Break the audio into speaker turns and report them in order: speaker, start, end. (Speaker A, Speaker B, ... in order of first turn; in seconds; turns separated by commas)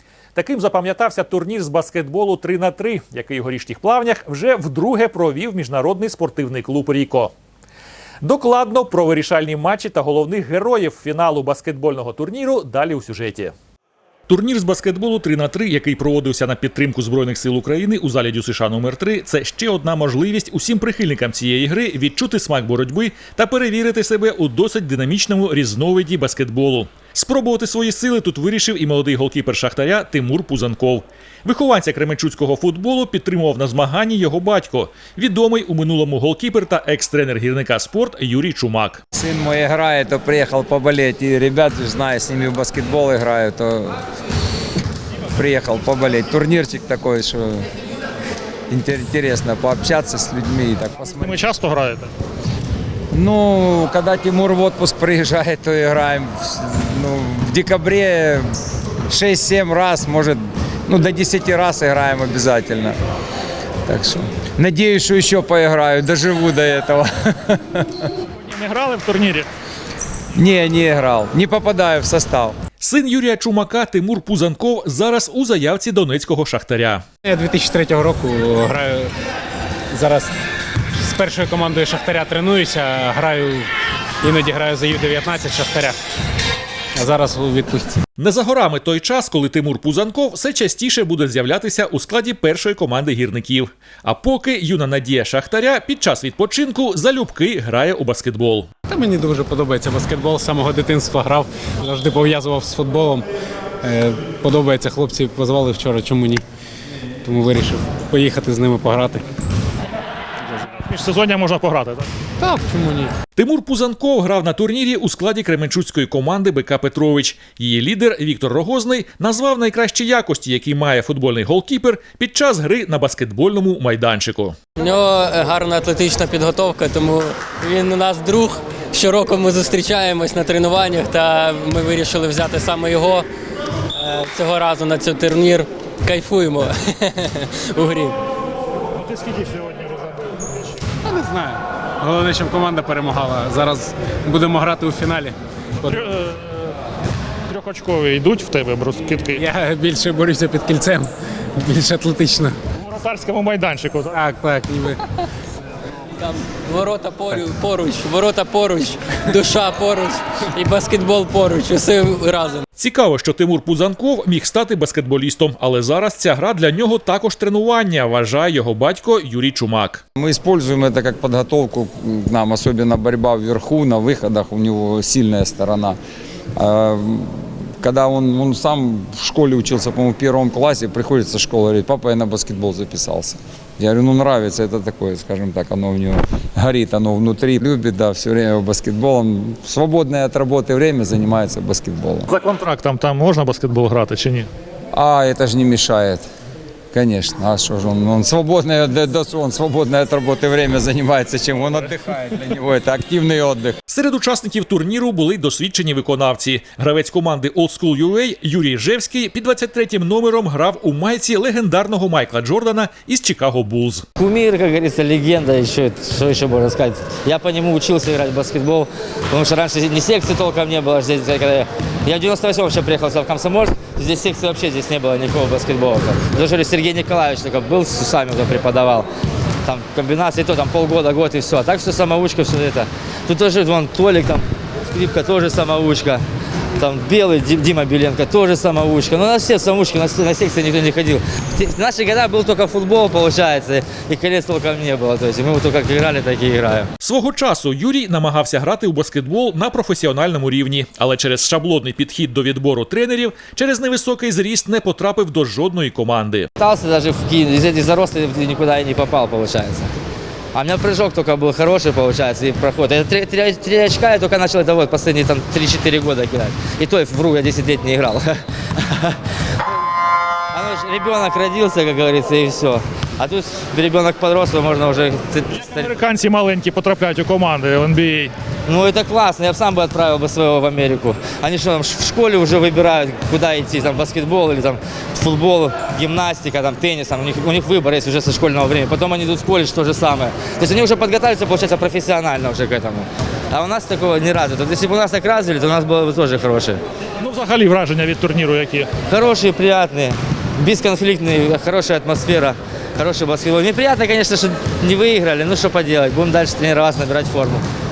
Speaker A: 0.3-7.3, Speaker A: 8.2-13.5, Speaker A: 14.3-39.0, Speaker B: 39.1-44.0, Speaker B: 45.3-47.7, Speaker B: 48.7-51.4, Speaker C: 51.1-52.1, Speaker B: 53.1-58.5, Speaker B: 59.1-63.0, Speaker B: 63.9-68.0, Speaker C: 68.4-69.5, Speaker B: 70.3-72.6, Speaker A: 72.8-77.0, Speaker D: 77.2-79.1, Speaker D: 79.9-80.3, Speaker D: 81.0-83.7, Speaker D: 84.2-86.0, Speaker D: 87.0-88.0, Speaker A: 88.2-98.7, Speaker D: 98.9-103.3, Speaker D: 103.8-106.4, Speaker D: 107.2-109.2, Speaker C: 110.7-112.1, Speaker D: 112.4-113.1, Speaker A: 113.4-124.6, Speaker E: 124.8-133.3, Speaker E: 134.0-138.2, Speaker C: 139.0-140.8, Speaker D: 141.0-146.1, Speaker C: 145.9-146.7, Speaker C: 147.5-149.4, Speaker D: 149.4-152.6, Speaker C: 152.8-154.2, Speaker D: 154.1-155.0, Speaker E: 156.2-162.6, Speaker A: 162.8-170.0, Speaker B: 170.2-176.0, Speaker B: 176.6-192.3, Speaker C: 192.3-194.5, Speaker B: 194.9-196.2, Speaker B: 196.9-203.8, Speaker A: 203.9-214.1, Speaker F: 214.2-229.1, Speaker F: 229.7-236.2, Speaker F: 236.8-246.9, Speaker A: 247.0-256.5, Speaker F: 256.6-259.9, Speaker F: 260.5-269.2, Speaker F: 270.5-275.9, Speaker C: 275.5-278.3, Speaker F: 278.7-296.8, Speaker C: 297.2-298.9, Speaker F: 299.1-307.6